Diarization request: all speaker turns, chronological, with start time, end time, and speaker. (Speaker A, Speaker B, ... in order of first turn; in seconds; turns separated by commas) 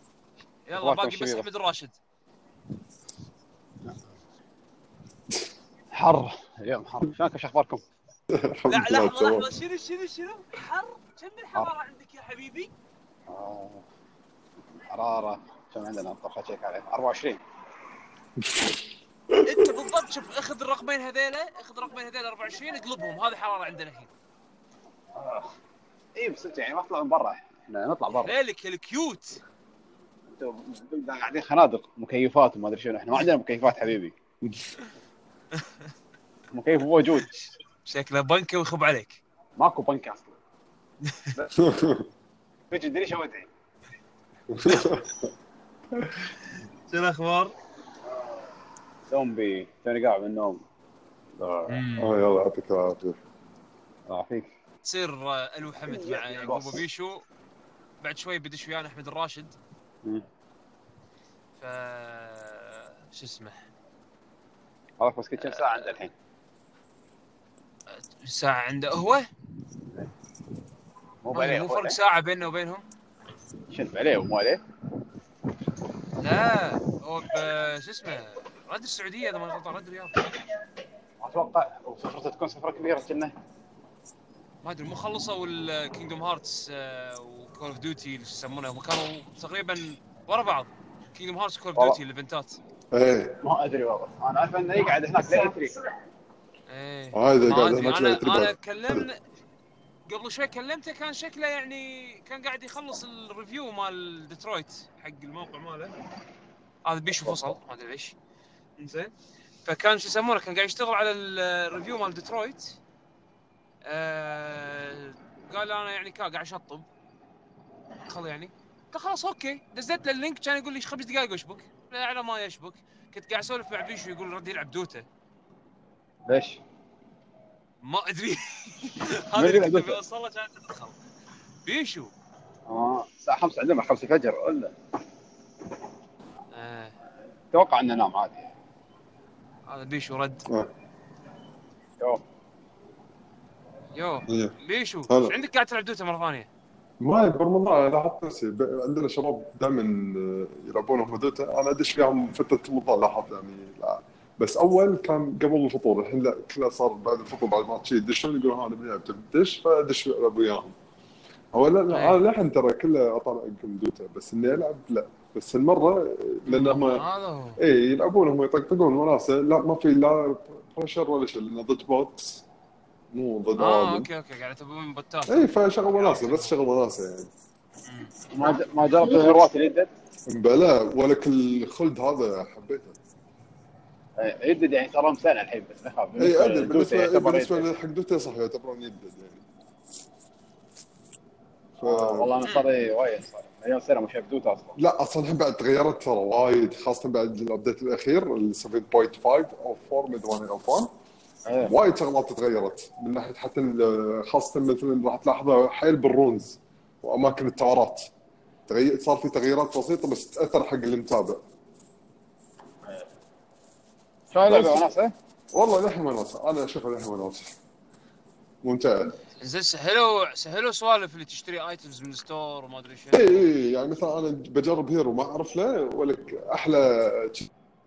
Speaker A: 0.7-1.9, Speaker B: 0.8-1.4, Speaker B: 5.9-7.8, Speaker C: 8.3-9.5, Speaker A: 8.7-12.7, Speaker B: 13.3-13.8, Speaker B: 14.9-17.4, Speaker C: 18.4-19.7, Speaker A: 19.4-24.1, Speaker B: 25.1-25.5, Speaker B: 26.1-28.3, Speaker A: 28.2-29.4, Speaker B: 30.4-34.1, Speaker C: 34.4-34.7, Speaker B: 36.5-37.5, Speaker A: 37.8-39.2, Speaker B: 39.6-40.3, Speaker C: 41.5-42.1, Speaker B: 42.7-43.5, Speaker C: 44.5-45.2, Speaker A: 44.7-45.0, Speaker A: 46.9-47.5, Speaker B: 49.1-50.6, Speaker B: 51.4-51.8, Speaker A: 51.7-52.1, Speaker C: 52.0-53.2, Speaker B: 54.1-54.5, Speaker A: 54.8-57.2, Speaker B: 55.9-56.8, Speaker A: 58.0-59.5, Speaker A: 61.5-63.5, Speaker B: 65.0-66.1, Speaker A: 67.9-69.3, Speaker B: 71.2-72.0, Speaker A: 71.3-72.8, Speaker B: 73.7-74.6, Speaker A: 76.2-80.1, Speaker B: 81.2-83.3, Speaker A: 84.6-92.6, Speaker C: 92.9-93.4, Speaker B: 93.4-95.7, Speaker A: 96.7-99.2, Speaker C: 97.1-99.1, Speaker A: 100.1-105.9, Speaker A: 106.8-108.2, Speaker C: 107.2-107.5, Speaker A: 108.8-109.1, Speaker A: 109.7-112.8, Speaker A: 113.8-116.8, Speaker A: 118.1-125.0, Speaker B: 126.3-126.6, Speaker A: 127.8-130.9, Speaker B: 129.3-130.0, Speaker A: 131.6-132.1, Speaker B: 132.7-134.7, Speaker A: 136.5-136.9, Speaker B: 137.5-138.5, Speaker A: 139.7-140.4, Speaker A: 143.9-146.5, Speaker C: 144.3-144.5, Speaker C: 145.1-145.3, Speaker C: 147.0-160.7, Speaker C: 161.5-167.1, Speaker A: 161.9-162.2, Speaker A: 166.5-167.6, Speaker C: 167.6-172.4, Speaker C: 173.1-174.1, Speaker A: 173.6-175.3, Speaker C: 175.3-177.3, Speaker A: 175.9-176.5, Speaker A: 177.9-178.1, Speaker B: 178.3-179.9, Speaker C: 180.3-183.0, Speaker B: 184.2-187.7, Speaker C: 186.2-189.4, Speaker C: 191.8-192.3, Speaker B: 191.8-194.8, Speaker C: 194.8-200.9, Speaker B: 201.4-201.7, Speaker C: 201.6-208.1, Speaker C: 208.7-211.4, Speaker B: 214.3-215.1, Speaker C: 214.4-214.9, Speaker C: 215.5-217.6, Speaker C: 218.6-219.2, Speaker A: 219.4-223.4, Speaker C: 223.1-227.5